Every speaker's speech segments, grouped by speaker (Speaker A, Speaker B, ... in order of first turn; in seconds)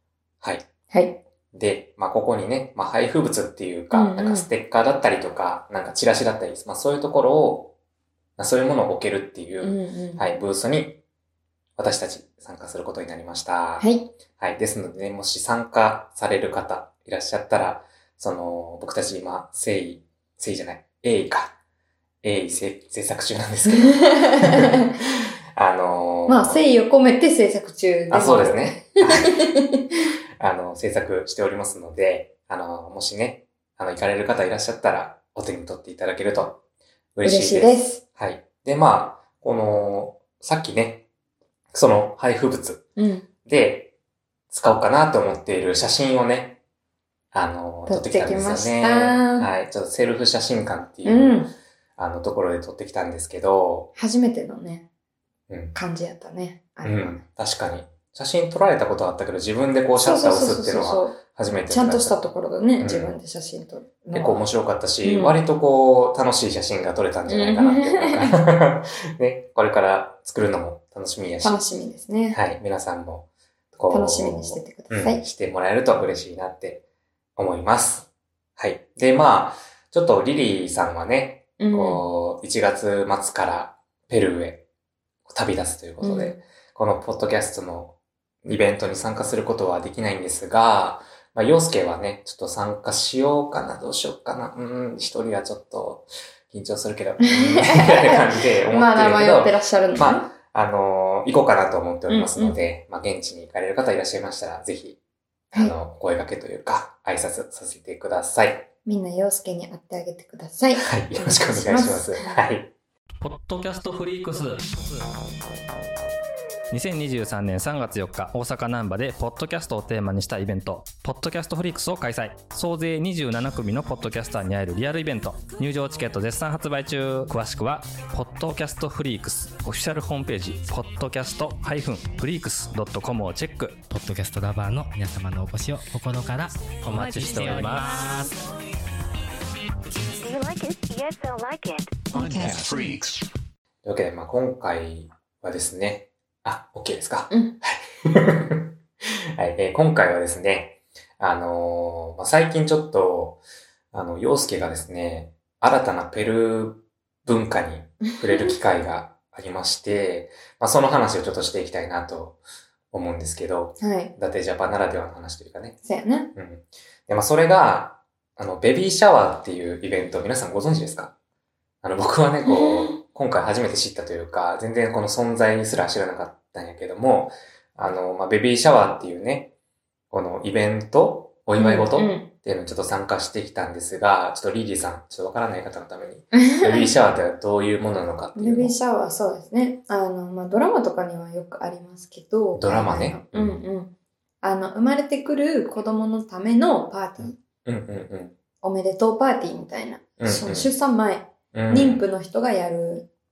Speaker A: 0.4-0.7, 1.5-7.7, 8.4-11.0, 11.8-13.9, 14.4-21.6, 22.2-24.9, 25.6-26.6, 28.1-29.3, 30.4-36.6, 37.2-41.0, 41.7-42.9, 43.5-43.9, 44.5-46.6, 47.3-53.9, 55.5-55.7, 56.8-62.2, 62.8-63.1, 64.1-71.6, 72.3-76.8, 77.4-84.6, 85.3-105.0, 105.5-108.7, 110.8-112.7, 143.8-148.7, 149.4-153.4, 153.9-162.4, 162.9-165.8, 166.3-171.1, 171.8-179.5, 180.1-188.8, 192.6-193.6, 197.7-198.3, 200.2-200.7, 201.5-202.0
Speaker B: 0.9-1.2, 3.9-4.5, 9.6-10.2, 13.8-14.1, 23.6-24.9, 26.3-29.9, 37.2-38.0, 43.0-43.3, 47.9-49.5, 51.0-51.5, 54.0-54.9, 55.7-57.2, 60.0-61.2, 61.7-64.4, 65.0-65.4, 67.3-68.4, 71.4-72.4, 73.9-75.2, 81.6-82.0, 86.0-86.4, 97.2-100.3, 102.1-102.6, 108.9-112.4, 142.1-142.9, 147.3-147.6, 158.2-158.6, 163.8-164.1, 165.8-166.3, 172.4-173.0, 181.6-182.3, 186.3-186.9, 188.3-197.4, 198.6-203.1
Speaker C: 113.2-115.0, 116.7-133.8, 136.8-138.2
Speaker D: 133.9-138.3, 142.3-142.9
Speaker E: 140.2-142.2